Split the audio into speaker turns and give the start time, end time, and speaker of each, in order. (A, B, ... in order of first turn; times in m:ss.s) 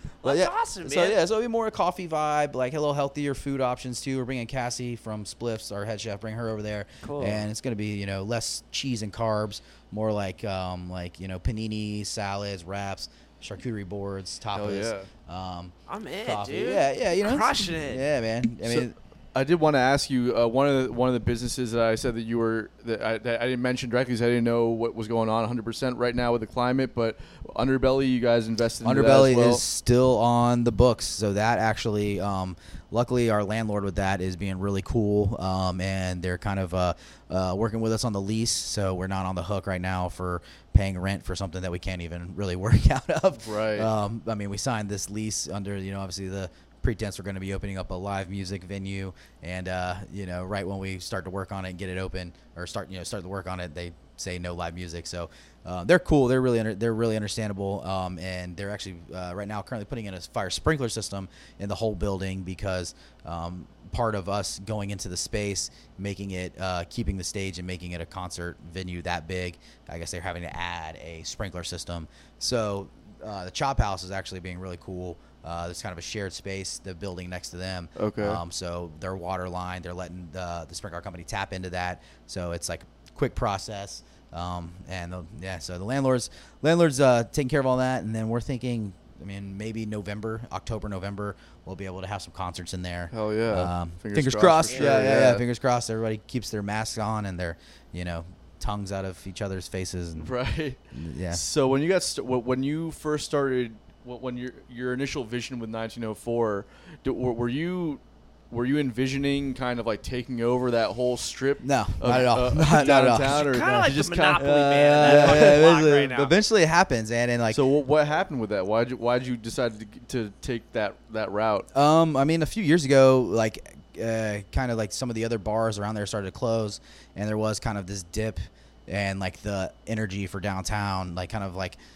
0:00.2-0:01.2 A
0:00.2-0:15.7 B
0:07.0-0:07.4 A
0:14.5-0:15.1 C
0:15.9-0:18.0 A
0:16.2-0:18.9 B
0:18.6-0:29.6 C
0:28.8-1:40.3 B
0:43.4-0:43.9 C
1:18.0-1:18.4 C
1:33.1-1:35.4 C
1:40.2-1:55.6 C
1:40.9-1:41.4 B
1:51.6-1:57.6 B
1:53.3-1:56.3 A
1:57.5-2:01.7 C
2:01.7-2:11.8 B